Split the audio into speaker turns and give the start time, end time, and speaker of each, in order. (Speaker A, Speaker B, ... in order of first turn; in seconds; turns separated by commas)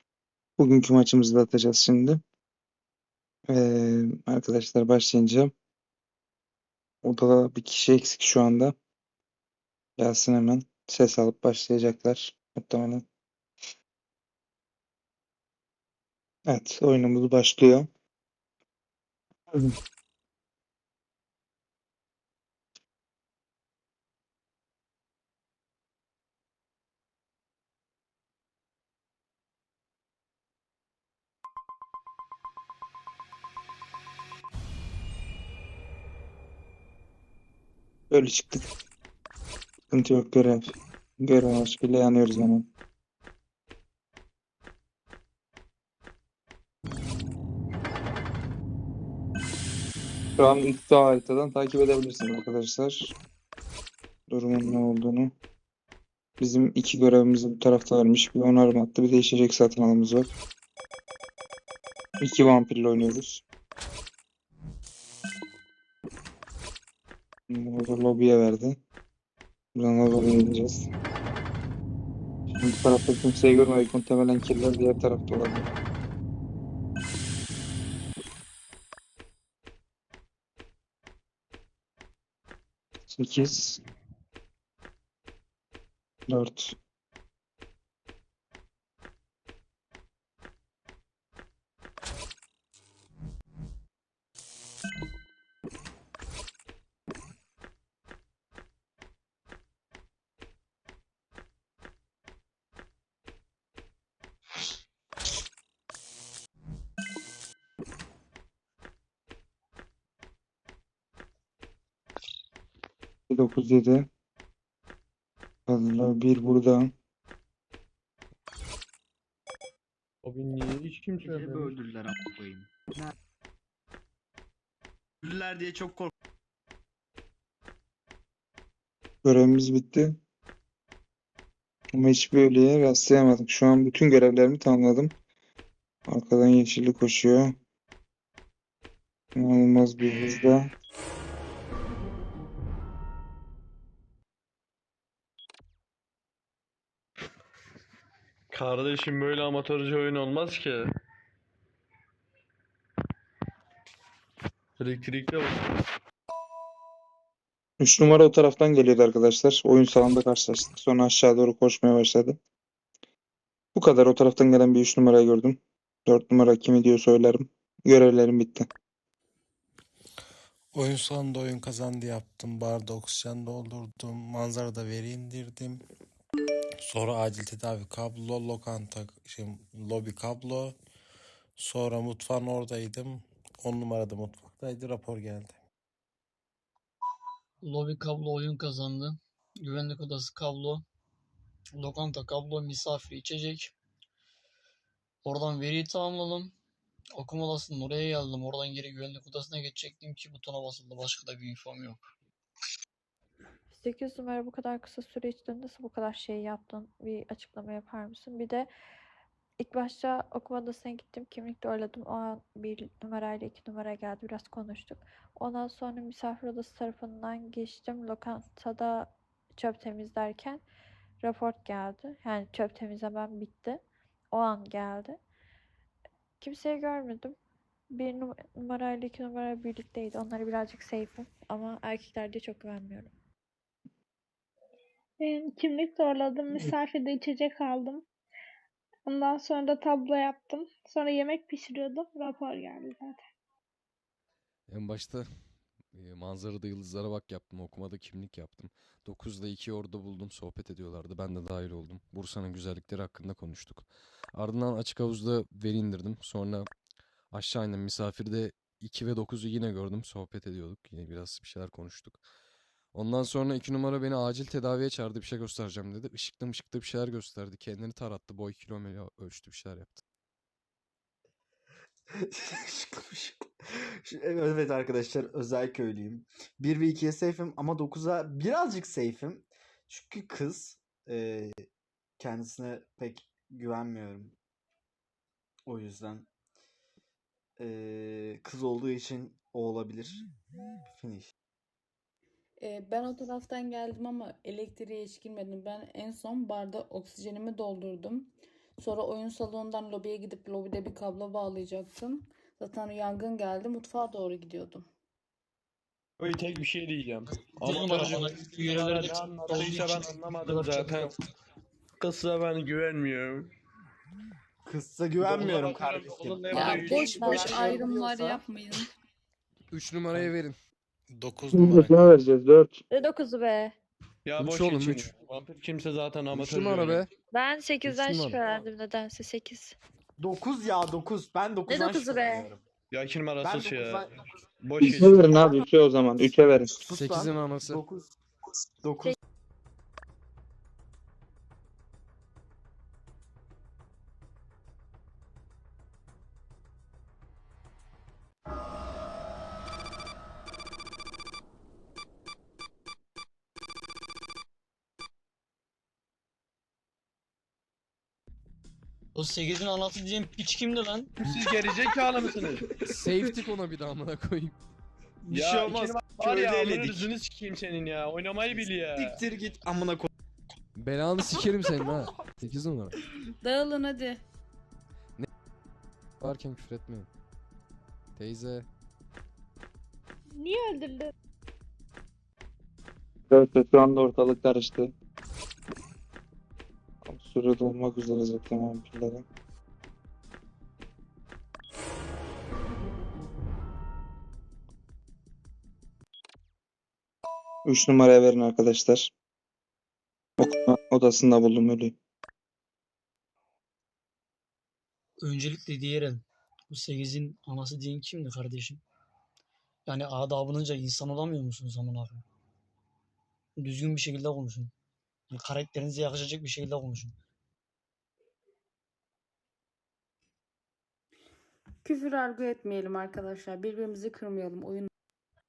Speaker A: 0.6-2.2, Speaker A: 3.5-5.5, Speaker A: 7.0-8.7, Speaker A: 10.0-13.0, Speaker A: 16.5-17.9, Speaker A: 38.1-38.7, Speaker A: 39.9-42.6, Speaker A: 50.4-53.1, Speaker A: 54.3-55.3, Speaker A: 56.4-60.3, Speaker A: 62.2-63.4, Speaker A: 67.5-68.8, Speaker A: 69.7-70.9, Speaker A: 72.5-75.7, Speaker A: 83.1-83.8, Speaker A: 86.3-86.7, Speaker A: 113.3-114.1, Speaker A: 115.7-116.9, Speaker B: 120.2-121.8, Speaker C: 121.2-123.1, Speaker C: 125.2-126.1, Speaker A: 129.2-130.2, Speaker A: 131.9-135.1, Speaker A: 136.1-137.5, Speaker A: 139.3-140.7, Speaker B: 148.5-150.9, Speaker B: 154.8-155.5, Speaker A: 157.8-162.3, Speaker A: 163.7-168.7, Speaker D: 170.7-175.8, Speaker D: 176.8-180.8, Speaker D: 181.6-185.6, Speaker E: 187.6-190.8, Speaker E: 191.8-193.7, Speaker E: 195.2-196.5, Speaker E: 197.2-202.0, Speaker F: 203.7-208.7, Speaker F: 209.6-220.6, Speaker F: 221.2-225.2, Speaker F: 226.4-227.4, Speaker F: 227.9-233.1, Speaker G: 235.2-238.1, Speaker G: 239.0-243.2, Speaker H: 244.7-245.2, Speaker H: 245.9-256.7, Speaker H: 257.3-262.2, Speaker H: 262.9-270.0, Speaker C: 272.3-273.4, Speaker C: 274.0-281.7, Speaker C: 282.2-284.4, Speaker C: 285.7-286.3, Speaker C: 287.6-290.2, Speaker C: 290.9-291.3, Speaker I: 292.6-304.9, Speaker B: 306.2-311.1, Speaker E: 307.6-311.2, Speaker B: 312.0-313.5, Speaker C: 314.6-318.3, Speaker B: 315.2-317.4, Speaker I: 316.5-318.8, Speaker F: 317.2-318.4, Speaker H: 319.7-320.5, Speaker D: 321.1-322.0, Speaker A: 321.5-322.8, Speaker F: 322.9-323.7, Speaker B: 324.2-327.1, Speaker H: 324.4-325.1, Speaker H: 326.3-327.1, Speaker F: 327.3-329.8, Speaker H: 327.8-328.4, Speaker C: 330.2-332.6, Speaker F: 331.7-332.5, Speaker B: 332.9-334.0, Speaker C: 333.4-334.1, Speaker B: 334.6-335.3, Speaker A: 334.8-336.7, Speaker C: 336.8-338.1, Speaker H: 336.9-337.8, Speaker C: 338.8-339.1, Speaker E: 359.1-361.1, Speaker B: 361.2-362.6, Speaker C: 361.3-362.2, Speaker H: 362.8-364.6, Speaker C: 365.2-367.1, Speaker B: 365.3-369.2, Speaker C: 368.5-370.1, Speaker H: 370.7-372.9, Speaker I: 373.4-374.2, Speaker H: 376.2-377.1, Speaker H: 378.1-378.7, Speaker G: 380.4-381.1, Speaker A: 383.3-384.9, Speaker A: 387.0-389.2, Speaker A: 397.6-399.1, Speaker A: 400.4-401.9, Speaker E: 405.2-408.8, Speaker E: 409.9-412.2, Speaker E: 413.6-414.7, Speaker E: 415.3-417.1, Speaker I: 421.8-424.9